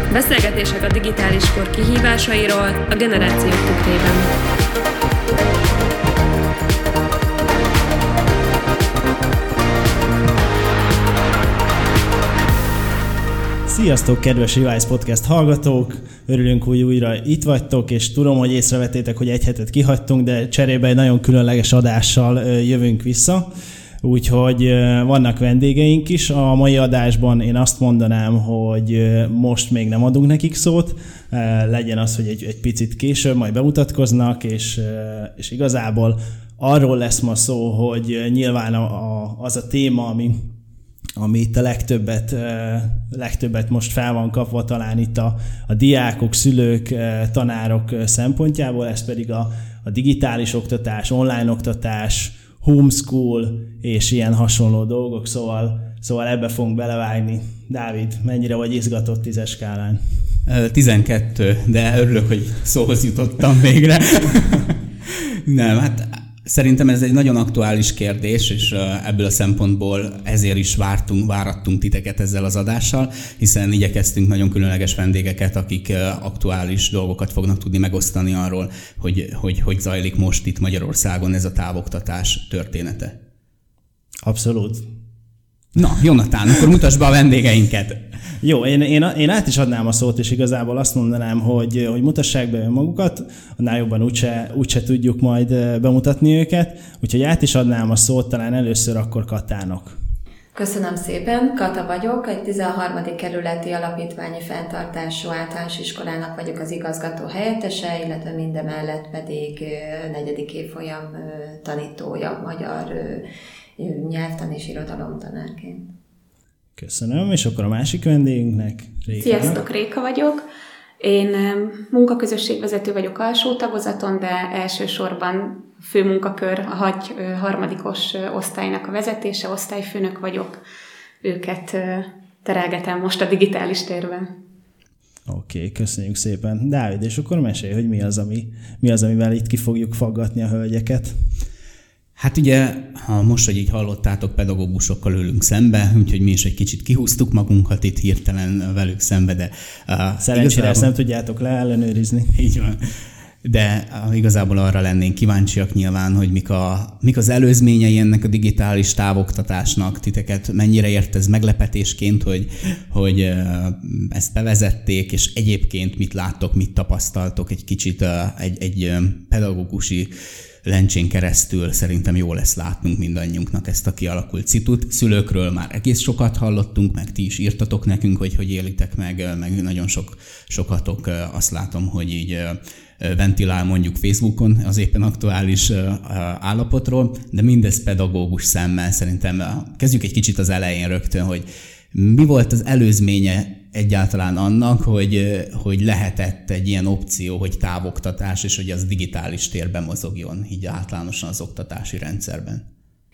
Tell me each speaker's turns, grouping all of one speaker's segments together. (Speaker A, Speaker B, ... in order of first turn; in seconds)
Speaker A: 0.1-4.2
Speaker B: 13.7-23.4, 24.0-40.5, 41.2-60.0, 84.2-84.8, 88.4-100.0, 116.8-119.6, 135.2-141.2, 150.2-152.3
Speaker C: 60.5-83.2, 85.8-88.0, 142.2-150.9, 152.3-152.8, 153.4-170.1, 170.6-202.6
Speaker D: 100.5-113.2, 113.8-115.9
Speaker E: 119.2-120.4, 121.0-130.6, 131.2-134.3